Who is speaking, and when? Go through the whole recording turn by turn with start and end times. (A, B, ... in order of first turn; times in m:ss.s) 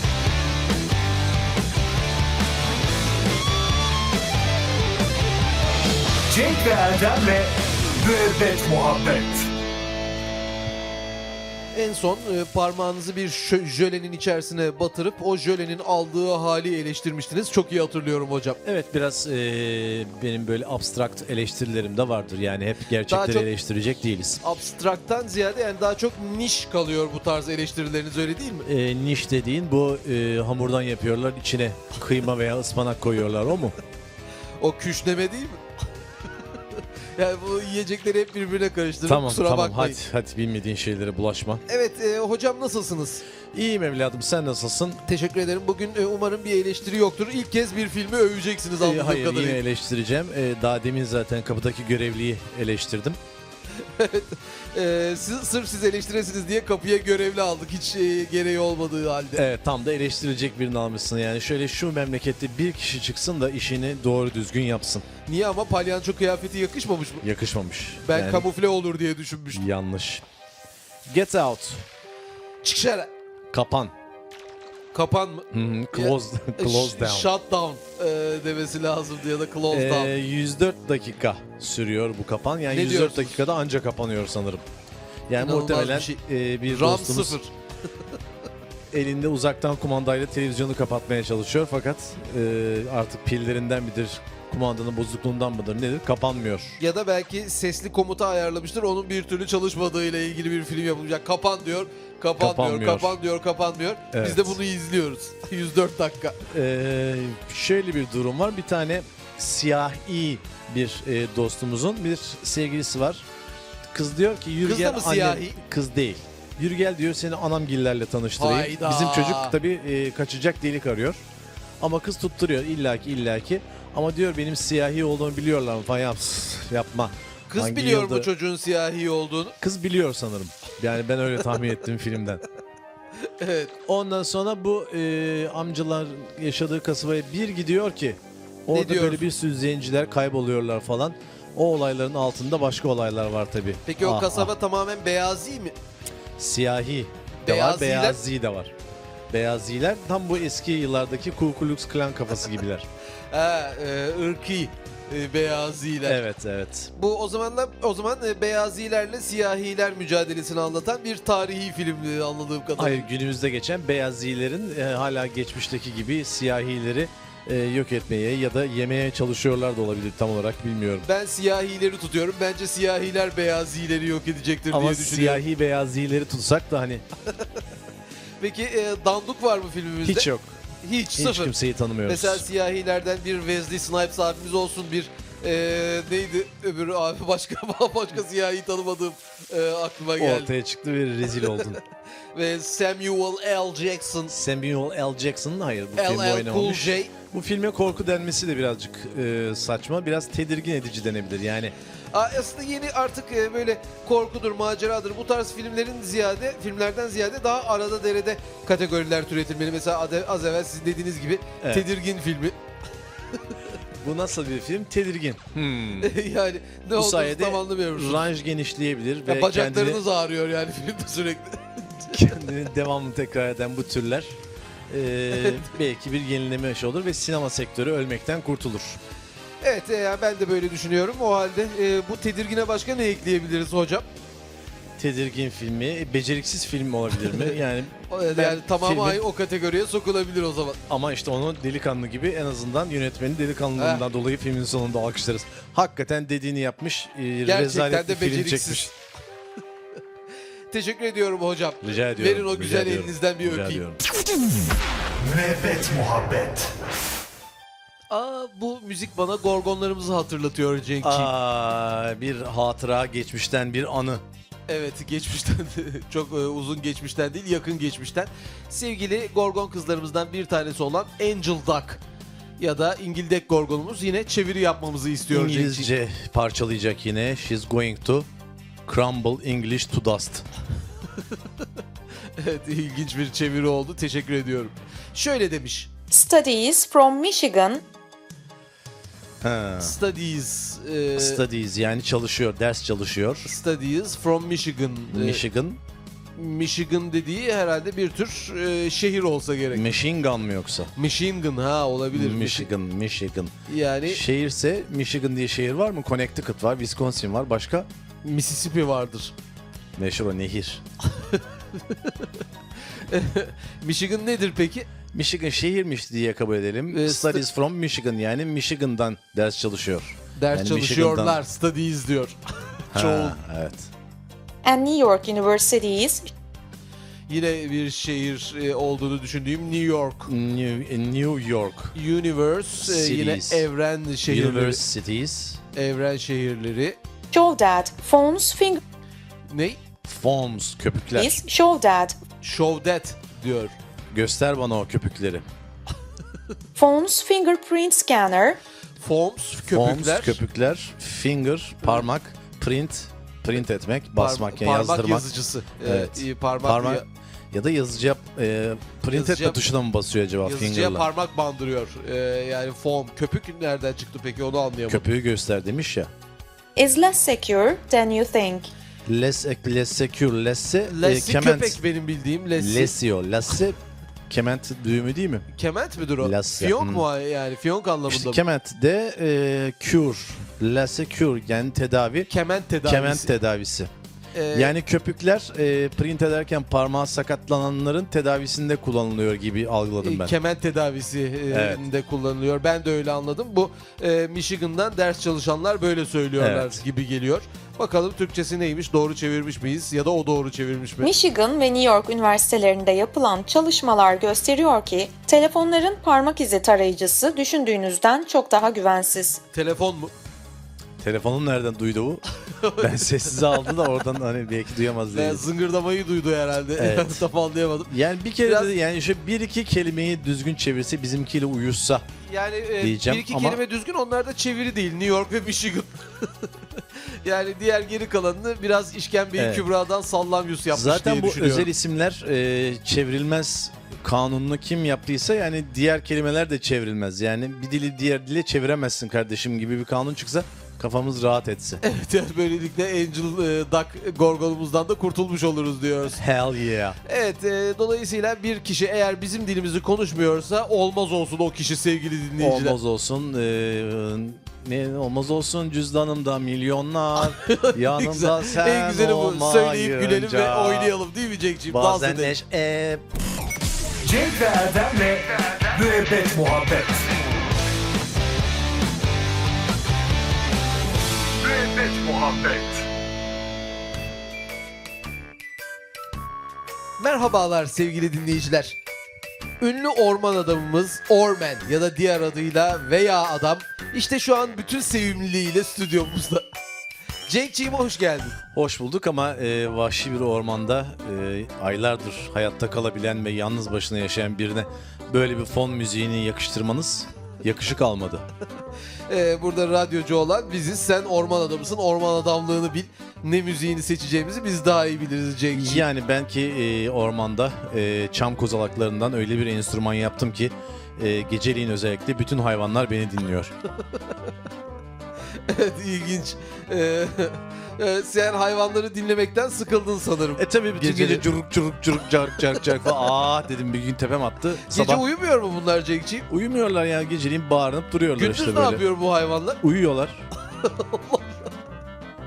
0:06.3-0:09.5 A
0:11.7-0:18.6 B
0:18.6-0:24.4 C
0:23.1-0:23.5 B
0:24.4-0:28.7 B
0:28.6-0:33.8 C
0:34.6-0:35.6 B
0:37.2-0:40.0 B
0:39.1-0:41.6 C
0:41.7-0:43.2 B
0:43.5-0:45.0 C
0:45.1-0:49.6 B
0:48.8-0:53.2 C
0:54.0-0:59.4 B
0:59.4-1:05.1 C
1:05.3-1:07.2 B
1:07.2-1:08.5 C
1:08.0-1:09.6 B
1:09.5-1:10.2 C
1:11.1-1:11.8 C
1:12.6-1:13.1 B
1:13.5-1:13.9 C
1:14.9-1:20.1 B
1:15.5-1:17.3 C
1:19.7-1:24.6 C
1:22.7-1:23.4 B
1:25.3-1:27.4 C
1:25.4-1:27.5 B
1:28.9-1:36.8 C
1:36.8-1:46.4 B
1:42.4-1:43.2 C
1:44.1-1:44.6 C
1:46.5-1:53.2 C
1:53.9-2:01.2 C
1:54.6-1:55.6 B
1:58.4-1:59.6 B
2:01.8-2:08.3 C
2:07.5-2:09.6 B
2:09.6-2:12.4 C
2:13.2-2:13.7 B
2:13.9-2:24.5 C
2:18.7-2:19.2 B
2:23.9-2:25.8 B
2:26.4-2:28.7 C
2:27.4-2:28.2 B
2:29.3-2:32.9 C
2:33.3-2:36.2 B
2:36.0-2:36.9 C
2:37.0-2:43.0 B
2:42.8-2:51.1 C
2:51.0-2:55.4 B
2:54.7-2:57.0 C
2:58.4-3:00.3 B
3:00.0-3:00.6 C
3:00.8-3:01.5 B
3:01.2-3:02.4 C
3:02.1-3:10.5 B
3:10.2-3:11.8 C
3:12.4-3:14.3 B
3:14.3-3:21.7 C
3:16.0-3:17.1 B
3:22.1-3:32.6 B
3:34.0-3:36.1 C
3:36.0-3:38.3 B
3:37.0-3:40.0 C
3:39.3-3:42.2 B
3:42.1-3:44.4 C
3:44.9-3:49.0 C
3:45.4-3:45.7 B
3:49.6-3:54.1 B
3:55.0-3:59.2 C
3:58.1-4:00.8 B
4:00.9-4:08.9 C
4:03.8-4:04.0 B
4:07.4-4:08.9 B
4:10.7-4:13.8 B
4:11.8-4:14.0 C
4:15.2-4:16.7 A
4:18.1-4:21.3 B
4:21.0-4:24.2 C
4:24.7-4:32.0 B
4:32.6-4:35.9 B
4:35.3-4:38.3 C
4:38.9-4:40.4 C
4:42.4-4:45.9 B
4:46.1-4:47.8 D
4:49.4-4:50.0 C
4:49.8-4:51.4 B
4:51.2-4:53.5 C
4:53.4-4:55.4 B
4:55.1-4:55.8 C
4:56.4-4:59.9 B
4:59.7-5:00.9 C
5:01.0-5:02.7 B
5:02.1-5:03.5 C
5:03.7-5:04.2 B
5:04.1-5:07.9 C
5:08.2-5:09.3 B
5:10.0-5:10.8 C
5:11.2-5:12.3 B
5:13.1-5:14.9 B
5:15.1-5:21.4 C
5:16.9-5:17.4 B
5:20.4-5:22.4 B
5:22.9-5:23.4 B
5:22.9-5:23.9 C
5:24.6-5:26.3 D
5:27.3-5:30.3 B
5:30.3-5:32.0 C
5:32.0-5:34.8 B
5:32.8-5:33.7 C
5:34.3-5:35.6 C
5:35.8-5:37.0 B
5:37.3-5:38.8 D
5:39.5-5:39.8 B
5:40.0-5:41.4 C
5:41.2-5:42.2 D
5:42.4-5:43.7 B
5:44.1-5:45.4 C
5:46.8-5:48.6 D
5:49.0-5:50.4 B
5:49.7-5:55.2 C
5:54.2-5:57.1 B
5:55.8-6:01.1 C
5:59.1-5:59.6 B
6:00.4-6:05.0 B
6:04.9-6:06.1 C
6:06.8-6:08.7 D
6:09.1-6:11.8 C
6:10.9-6:13.0 B
6:12.6-6:13.8 C
6:14.3-6:15.5 C
6:15.5-6:18.4 B
6:16.2-6:17.1 C
6:18.1-6:22.3 C
6:22.3-6:23.3 B
6:22.8-6:23.9 C
6:24.4-6:24.8 B
6:24.5-6:30.3 C
6:30.0-6:41.1 B
6:31.5-6:31.8 C
6:36.4-6:36.8 C
6:41.0-6:49.4 D
6:49.5-6:50.1 B
6:51.0-6:52.2 C
6:52.5-6:53.8 B
6:52.8-6:55.4 C
6:55.1-6:57.9 B
6:56.8-6:57.2 C
6:57.9-7:02.0 C
6:58.4-6:58.7 B
7:02.2-7:06.3 B
7:02.8-7:03.6 C
7:07.2-7:11.7 B
7:09.4-7:09.6 C
7:10.7-7:21.8 C
7:21.8-7:26.2 B
7:26.1-7:27.0 C
7:27.0-7:32.8 B
7:32.4-7:40.9 C
7:37.2-7:42.4 B
7:41.7-7:43.0 C
7:44.0-7:47.1 A
7:51.4-7:52.9 A
7:57.0-7:58.8 B
7:59.6-8:06.5 B
8:07.3-8:08.4 B
8:08.5-8:18.3 C
8:19.1-8:25.9 B
8:25.5-8:33.5 C
8:35.5-8:41.3 B
8:40.4-8:45.0 C
8:44.7-8:46.3 B
8:46.3-8:48.8 C
8:48.2-8:49.6 B
8:49.6-8:50.2 C
8:50.6-8:51.5 B